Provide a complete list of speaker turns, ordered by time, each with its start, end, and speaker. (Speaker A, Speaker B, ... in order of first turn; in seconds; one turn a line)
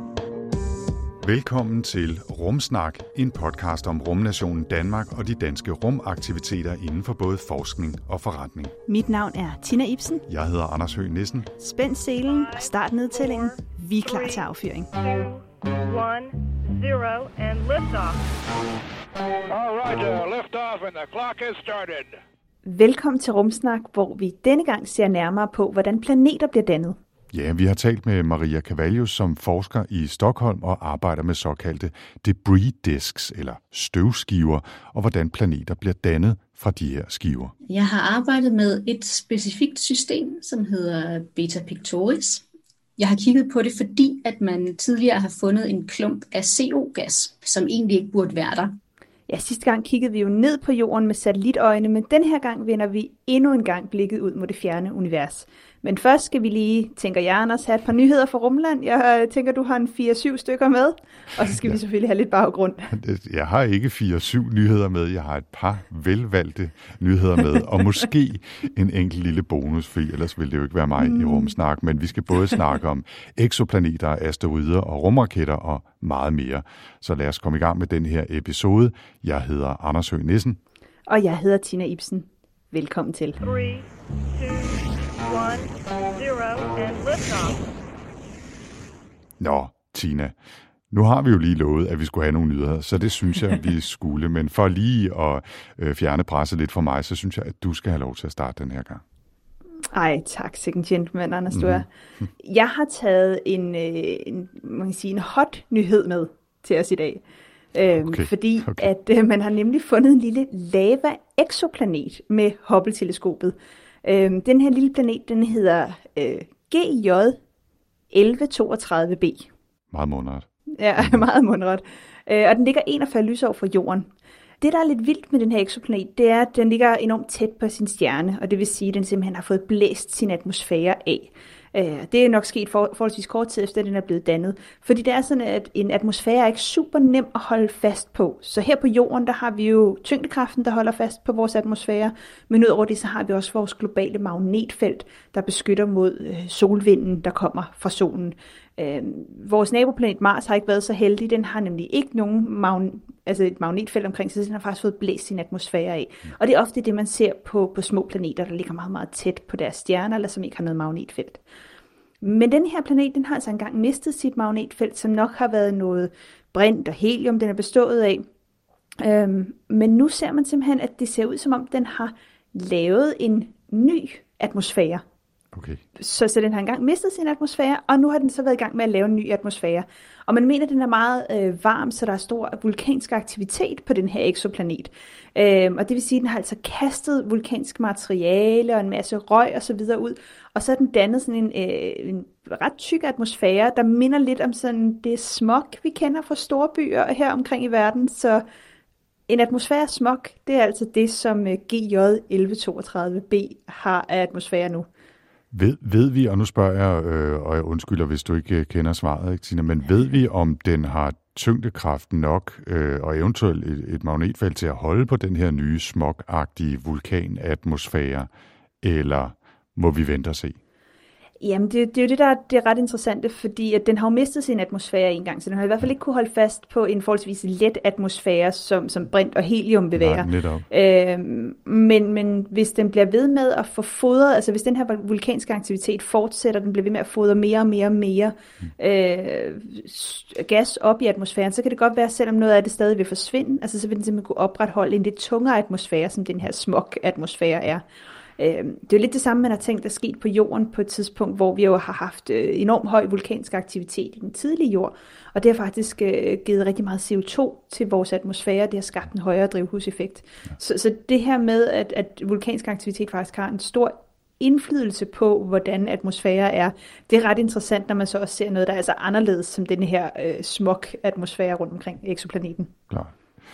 Speaker A: 1.2-8.8
Speaker B: 8.9-10.2
Speaker A: 10.3-11.5
Speaker B: 11.6-14.9
Speaker C: 12.3-18.2
Speaker D: 19.5-22.1
Speaker B: 22.7-27.0
Speaker A: 27.3-37.5
Speaker E: 37.7-42.4
Speaker E: 43.0-48.8
Speaker B: 49.3-63.0
Speaker A: 61.5-61.8
Speaker A: 62.9-80.6
Speaker B: 71.0-71.5
Speaker B: 81.1-83.4
Speaker C: 83.4-87.6
Speaker A: 89.4-90.3
Speaker A: 90.9-99.0
Speaker B: 99.9-101.9
Speaker A: 101.5-101.8
Speaker B: 102.4-107.2
Speaker B: 107.7-117.4
Speaker A: 107.9-108.9
Speaker B: 118.1-119.5
Speaker A: 119.9-120.5
Speaker B: 120.8-124.1
Speaker B: 124.6-161.4
Speaker B: 162.2-168.2
Speaker B: 169.0-175.0
Speaker A: 175.5-175.8
Speaker B: 176.0-198.4
Speaker B: 199.3-204.9
Speaker A: 205.5-218.3
Speaker A: 218.8-220.6
Speaker B: 221.4-247.8
Speaker A: 229.9-230.7
Speaker B: 248.4-272.7
Speaker A: 272.9-273.1